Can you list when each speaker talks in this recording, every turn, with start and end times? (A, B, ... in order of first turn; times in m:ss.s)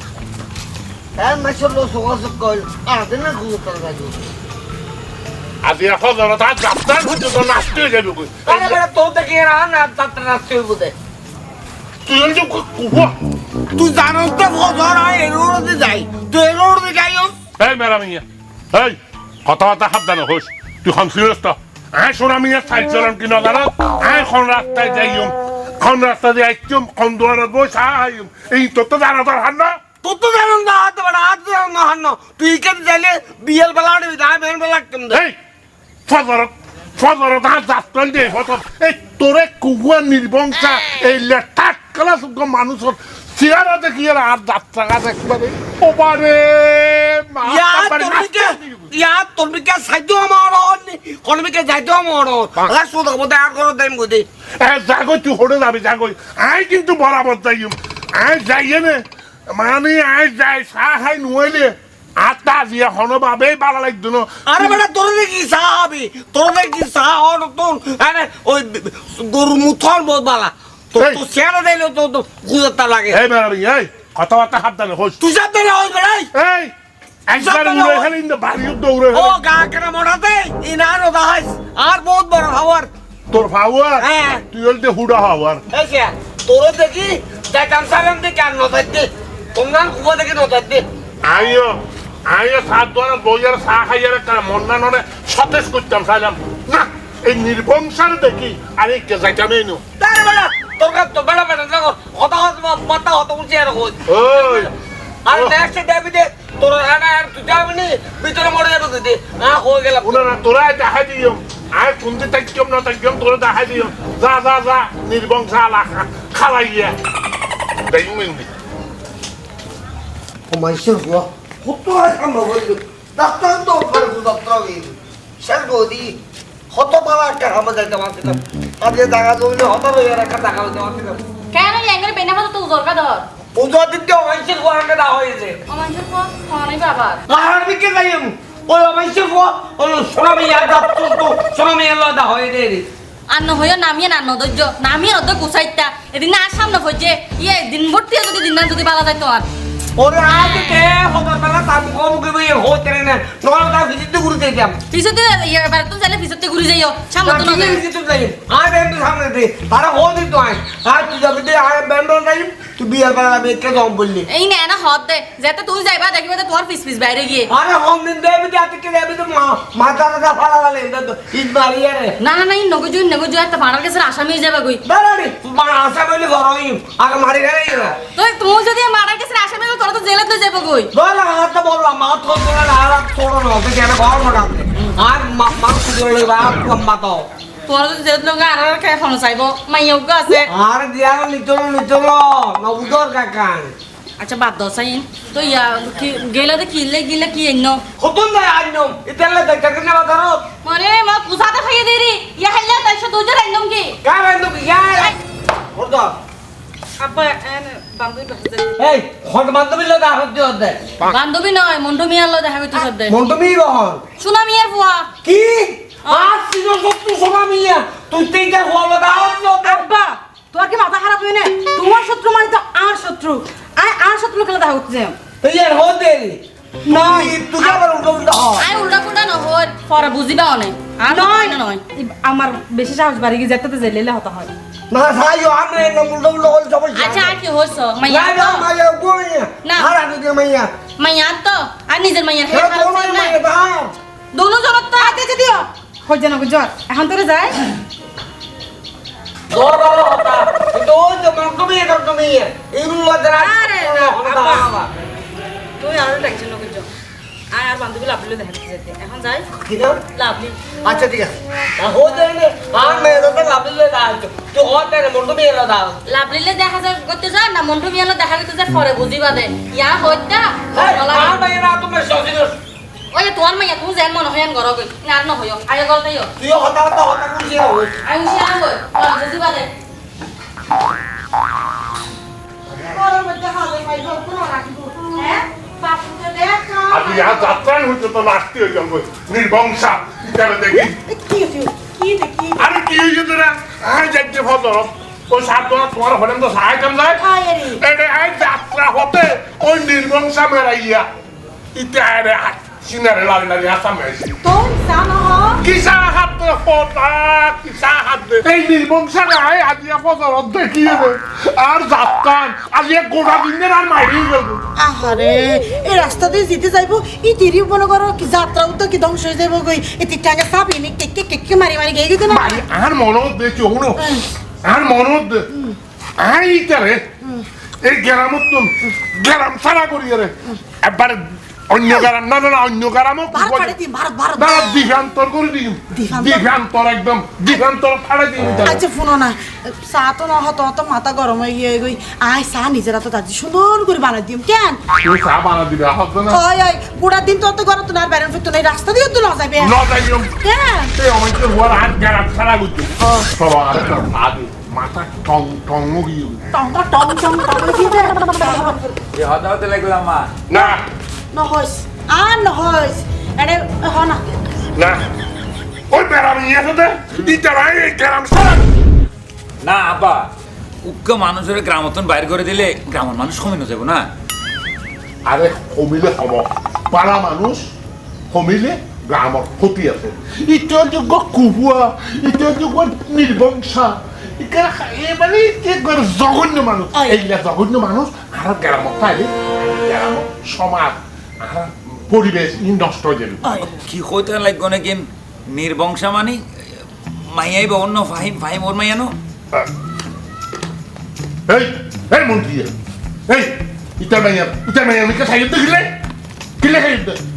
0:01.2-0:04.2 A
0:05.6-0:08.8 B
0:08.5-0:10.9 A
0:12.1-0:13.2 B
0:13.8-0:17.4 A
0:17.6-0:29.8 B
0:30.0-0:35.2 A
0:35.1-0:35.4 B
0:36.1-0:48.9 B
0:47.4-0:54.3 A
0:54.6-1:04.8 B
1:04.5-1:13.2 A
1:13.1-1:15.2 B
1:15.2-1:16.3 A
1:16.3-1:16.7 B
1:17.3-1:19.4 B
1:17.4-1:18.1 A
1:19.1-1:22.9 A
1:23.3-1:25.6 B
1:24.0-1:24.4 A
1:25.7-1:30.8 A
1:31.2-1:39.8 B
1:40.0-1:44.7 A
1:44.1-1:44.7 B
1:45.3-1:50.3 A
1:45.3-1:45.6 B
1:50.0-1:57.0 B
1:57.9-1:58.5 B
2:00.5-2:06.2 A
2:06.7-2:11.2 A
2:11.5-2:13.3 C
2:13.6-2:15.6 A
2:15.7-2:17.2 C
2:17.3-2:22.9 A
2:23.3-2:29.5 C
2:30.0-2:34.8 A
2:30.5-2:30.7 C
2:34.9-2:37.8 C
2:37.2-2:44.3 A
2:44.3-2:47.5 C
2:47.5-2:52.2 A
2:52.2-2:54.8 C
2:54.8-2:58.0 A
2:58.2-3:00.9 C
3:00.9-3:07.3 A
3:07.7-3:10.5 C
3:10.4-3:13.8 A
3:14.2-3:17.8 C
3:18.0-3:20.5 A
3:20.6-3:24.0 C
3:24.0-3:25.2 A
3:25.8-3:26.2 A
3:27.0-3:28.9 D
3:28.8-3:31.2 A
3:31.0-3:33.2 C
3:33.0-3:34.0 A
3:34.2-3:35.1 C
3:35.2-3:39.8 A
3:36.0-3:36.3 C
3:39.7-3:45.2 D
3:40.6-3:41.7 E
3:45.4-3:48.7 A
3:46.9-3:47.3 D
3:48.6-3:51.8 C
3:51.1-3:54.5 D
3:54.9-3:57.4 A
3:56.9-3:58.7 C
3:58.0-4:00.8 A
3:59.6-4:00.0 C
4:01.0-4:03.4 C
4:02.5-4:03.9 A
4:04.3-4:05.2 C
4:05.0-4:05.6 E
4:06.1-4:07.6 D
4:09.5-4:14.9 A
4:13.4-4:14.7 D
4:15.8-4:16.9 D
4:17.5-4:19.5 D
4:19.6-4:20.0 A
4:20.1-4:20.6 D
4:20.8-4:26.0 A
4:26.1-4:31.4 C
4:30.7-4:32.6 A
4:33.1-4:36.3 C
4:36.4-4:38.0 A
4:38.0-4:39.7 C
4:42.8-4:47.6 E
4:46.9-4:51.0 B
4:51.1-4:52.7 E
4:52.6-5:01.1 B
4:57.2-4:57.8 E
5:01.7-5:04.4 B
5:04.4-5:05.6 E
5:05.6-5:14.6 B
5:14.8-5:22.6 E
5:22.3-5:25.5 B
5:24.0-5:24.3 E
5:26.2-5:27.1 B
5:27.8-5:33.8 B
5:33.3-5:34.9 E
5:34.4-5:38.8 B
5:36.0-5:36.5 E
5:38.6-5:44.8 E
5:45.0-5:46.4 B
5:46.3-5:49.7 E
5:49.6-5:50.4 B
5:50.4-5:50.9 E
5:50.9-5:56.4 B
5:53.0-5:53.3 E
5:56.5-5:58.9 E
5:59.1-6:00.3 F
6:00.5-6:00.8 B
6:01.3-6:04.2 E
6:04.8-6:05.0 B
6:05.9-6:08.7 B
6:09.6-6:10.3 F
6:10.8-6:14.1 F
6:15.2-6:17.7 B
6:18.3-6:33.5 B
6:27.0-6:27.2 E
6:33.4-6:33.8 E
6:33.7-6:36.4 F
6:37.3-6:39.2 F
6:41.5-6:42.7 B
6:43.3-6:46.0 B
6:46.6-6:47.2 B